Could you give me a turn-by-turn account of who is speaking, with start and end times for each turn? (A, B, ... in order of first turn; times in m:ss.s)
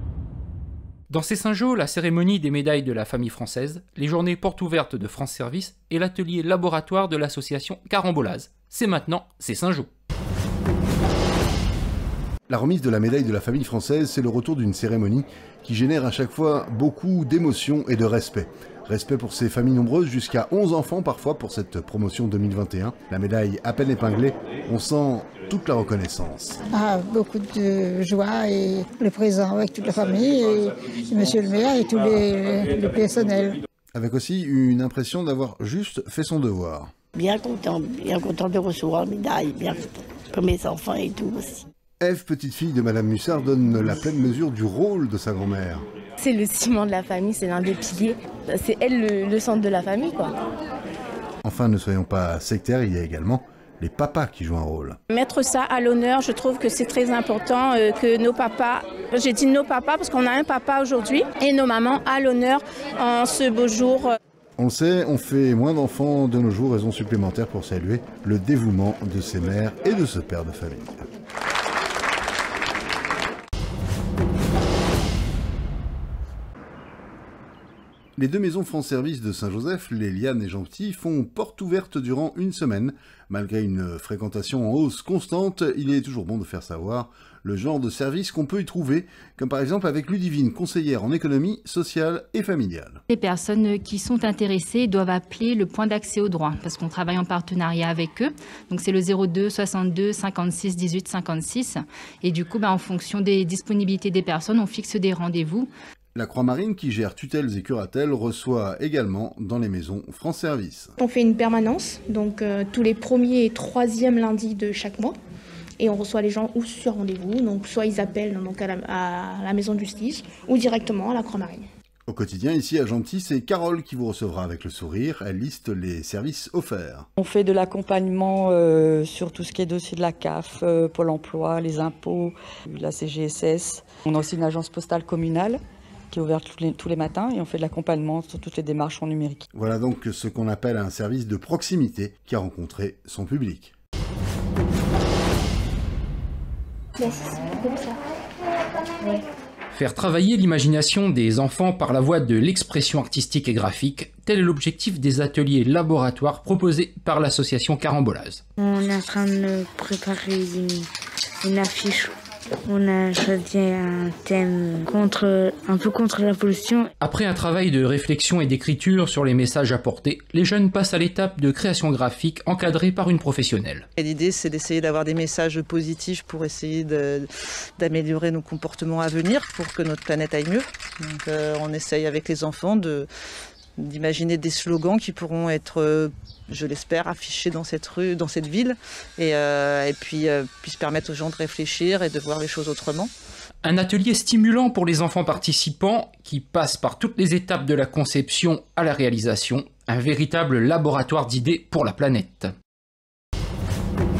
0:01.1-0:09.9 A
0:12.5-0:26.6 B
0:26.7-0:33.6 C
0:33.9-0:36.9 B
0:37.2-0:41.6 D
0:42.0-0:45.8 B
0:46.2-0:50.3 E
0:51.4-0:55.0 B
0:55.1-1:04.1 F
1:04.6-1:11.0 B
1:18.2-1:33.0 B
1:33.1-1:45.7 G
1:46.2-1:50.9 B
1:51.0-1:55.2 H
1:55.8-2:01.6 H
2:02.1-2:07.1 B
2:07.2-2:19.4 I
2:19.5-2:23.7 B
2:27.0-2:28.0 H
2:29.7-2:38.4 A
2:38.6-2:40.7 J
2:42.7-2:46.8 J
2:47.0-2:53.9 A
2:54.0-3:03.1 K
3:03.8-3:13.1 K
3:13.6-3:22.5 A